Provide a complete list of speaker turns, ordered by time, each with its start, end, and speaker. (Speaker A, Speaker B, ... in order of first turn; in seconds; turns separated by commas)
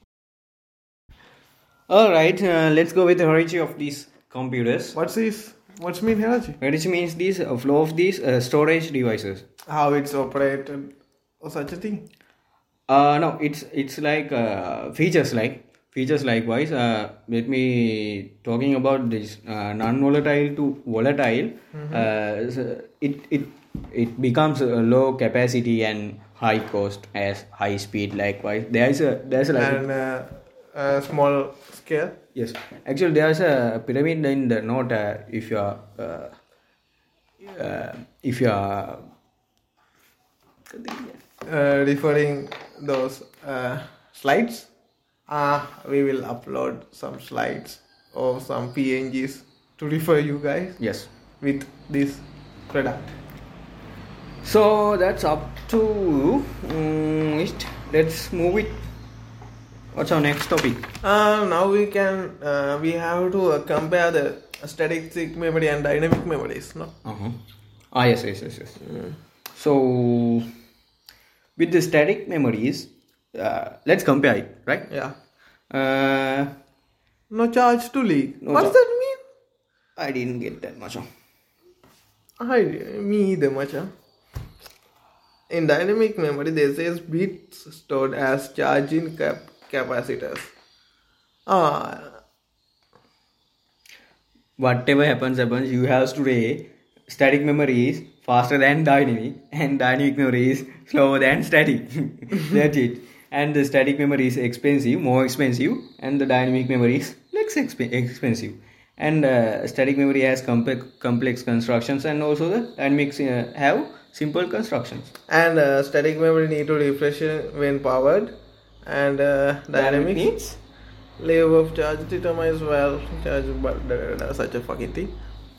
Speaker A: 1.9-5.0, Speaker B: 5.0-6.6, Speaker A: 6.6-9.4, Speaker B: 9.7-12.1, Speaker A: 12.9-29.8, Speaker B: 21.7-22.1, Speaker B: 29.6-32.2, Speaker A: 32.4-36.4, Speaker A: 37.4-39.0, Speaker A: 40.7-41.2, Speaker B: 41.5-44.7, Speaker B: 45.3-50.8, Speaker A: 50.8-51.1, Speaker B: 51.4-53.1, Speaker A: 54.4-58.8, Speaker A: 59.9-60.9, Speaker B: 61.0-66.9, Speaker A: 67.0-67.4, Speaker A: 67.9-68.8, Speaker B: 68.8-69.1, Speaker A: 69.5-70.5, Speaker A: 71.6-74.9, Speaker B: 74.9-75.1, Speaker A: 75.7-76.5, Speaker B: 77.3-79.2, Speaker A: 78.4-78.8, Speaker A: 80.0-81.1, Speaker B: 82.4-83.9, Speaker B: 85.5-90.5, Speaker B: 91.5-92.2, Speaker A: 94.6-115.1, Speaker B: 115.3-118.3, Speaker B: 118.8-120.3, Speaker A: 119.7-120.6, Speaker B: 121.2-125.1